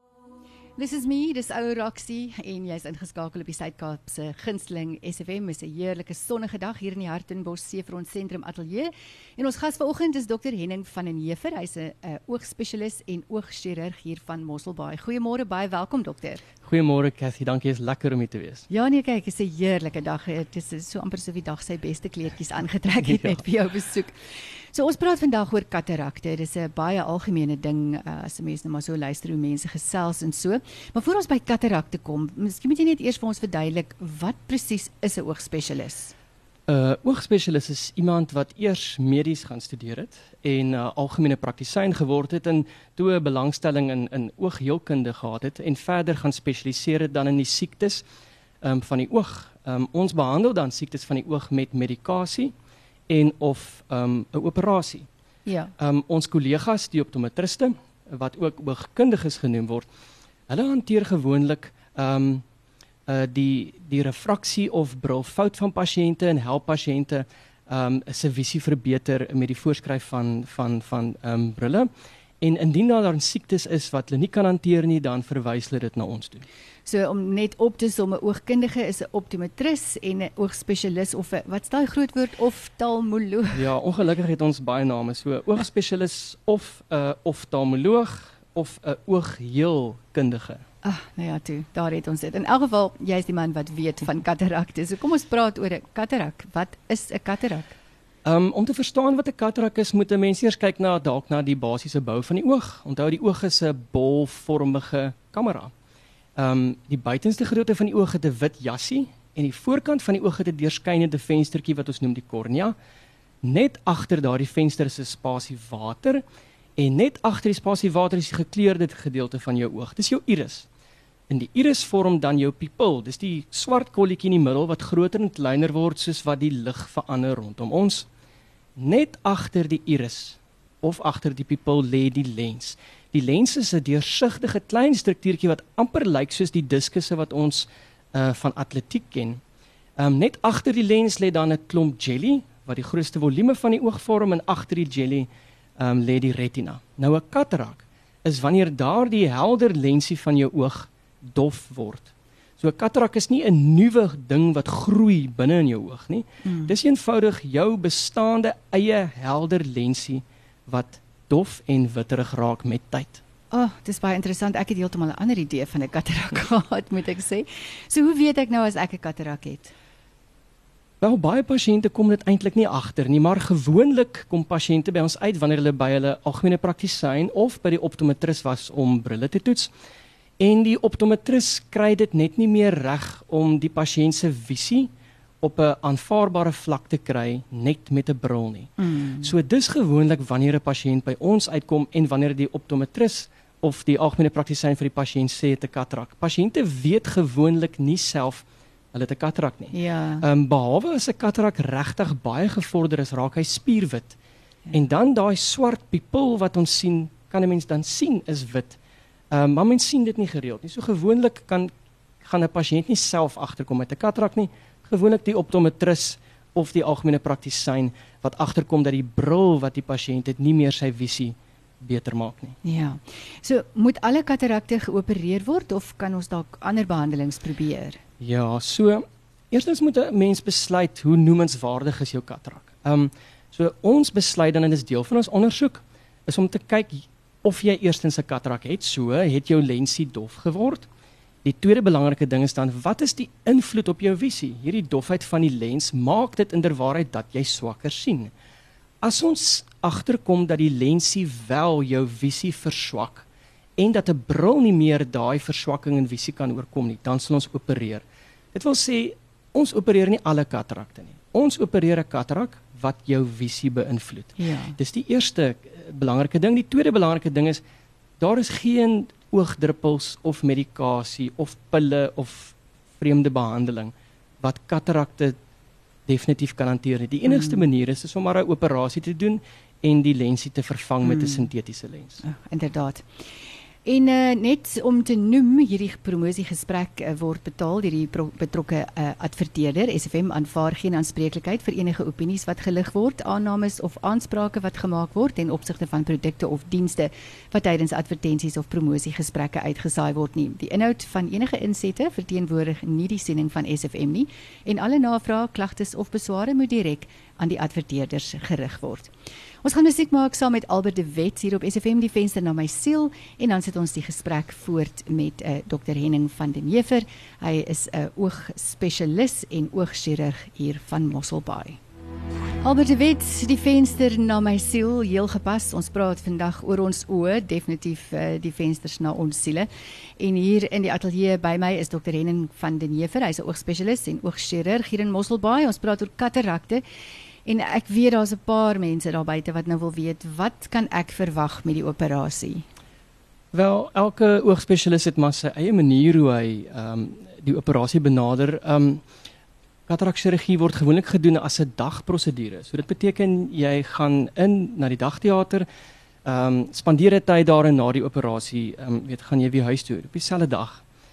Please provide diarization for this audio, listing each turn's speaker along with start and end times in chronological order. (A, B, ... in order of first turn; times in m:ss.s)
0:00.8-0:16.4 A
0:16.6-0:18.6 B
0:18.7-0:24.2 A
0:23.0-0:23.4 B
0:24.7-0:36.1 A
0:36.7-0:48.0 B
0:48.6-0:52.5 B
0:53.1-0:55.1 B
0:55.5-0:55.7 A
0:55.8-0:59.9 B
1:00.5-1:02.4 B
1:03.1-1:11.9 B
1:12.4-1:16.4 B
1:16.9-1:23.7 A
1:23.5-1:30.6 B
1:30.8-1:37.8 A
1:38.2-1:45.7 B
1:46.4-1:52.8 B
1:53.4-1:56.2 B
1:56.8-2:00.7 B
2:01.3-2:08.1 B
2:08.8-2:19.4 B
2:20.0-2:43.2 B
2:36.4-2:36.8 A
2:43.5-2:49.7 A
2:51.0-2:59.7 B
3:00.4-3:04.9 B
3:05.4-3:24.2 B
3:08.8-3:09.3 A
3:19.7-3:20.3 A
3:24.7-3:28.8 B
3:29.3-3:42.6 B
3:42.6-3:48.0 A
3:48.2-4:00.9 B
4:01.4-4:08.3 B
4:09.0-4:13.3 B
4:13.8-4:27.6 B
4:24.4-4:24.8 A
4:28.2-4:35.4 B
4:36.1-4:42.2 B
4:37.3-4:37.6 A
4:42.2-4:43.1 A
4:43.8-5:09.1 A
5:09.6-5:21.8 A
5:22.6-5:36.8 A
5:37.4-5:42.6 A
5:43.5-5:49.0 B
5:49.9-5:55.7 B
5:56.2-6:00.8 B